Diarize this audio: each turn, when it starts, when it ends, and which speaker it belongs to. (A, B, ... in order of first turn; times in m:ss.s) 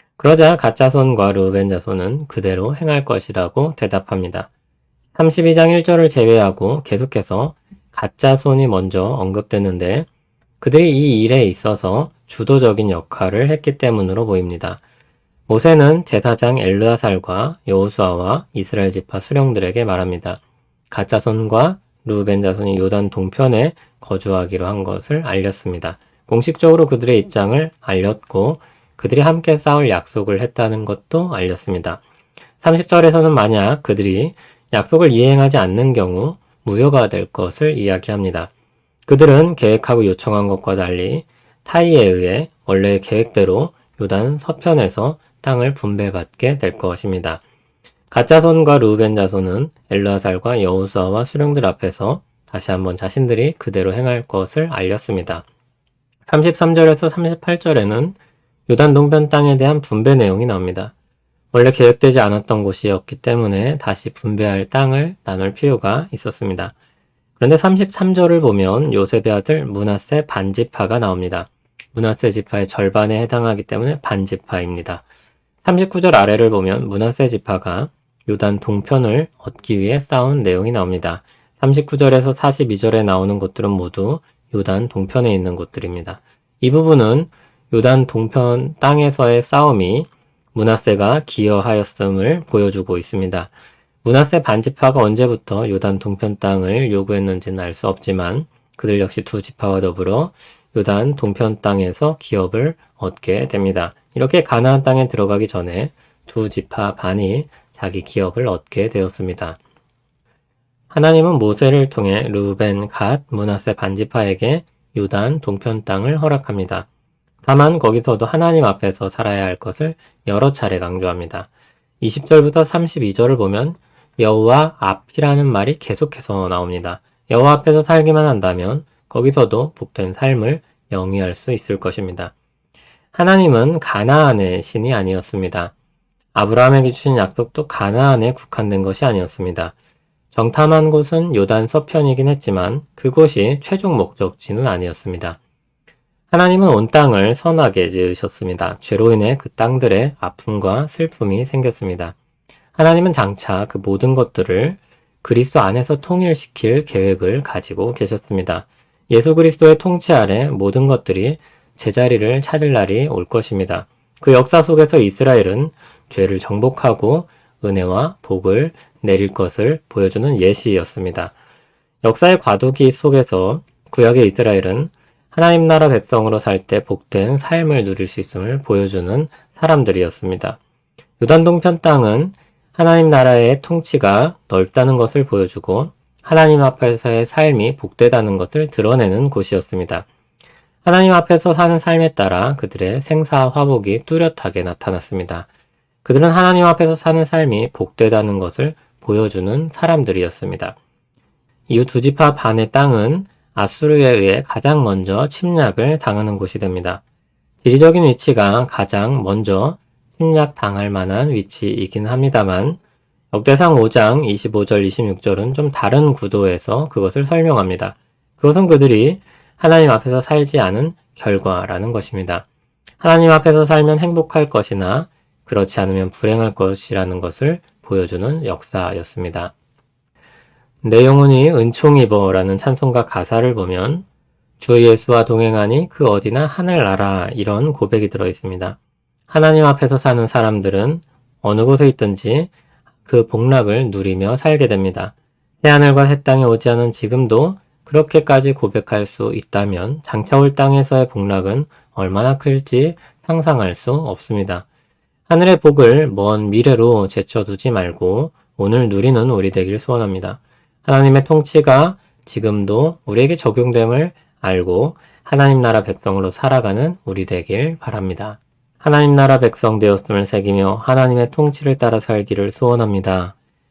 0:00.2-0:04.5 A
0:05.1-0:10.1 A
0:10.6-0:14.8 A
0:15.5-0:20.4 A
0:20.9-0:32.0 A
0:32.6-0:38.5 A
0:39.1-0:47.4 A
0:48.1-0:55.4 A
0:56.3-0:58.2 A
0:58.7-1:00.9 A
1:01.5-1:06.7 A
1:07.4-1:15.0 A
1:15.6-1:33.5 A
1:34.0-1:49.6 A
1:50.9-1:56.9 A
1:57.4-2:01.5 A
2:02.0-2:12.3 A
2:13.1-2:15.7 A
2:16.3-2:19.7 A
2:20.3-2:25.4 A
2:26.3-2:32.2 A
2:32.7-2:51.3 A
2:52.0-3:00.6 A
3:01.2-3:10.1 A
3:10.8-3:15.5 A
3:16.0-3:20.8 A
3:21.7-3:27.0 A
3:27.6-3:32.8 A
3:33.3-3:42.4 A
3:43.0-3:49.5 A
3:50.8-3:54.0 A
3:54.6-3:58.8 A
3:59.3-4:02.5 A
4:03.0-4:14.6 A
4:15.3-4:33.3 A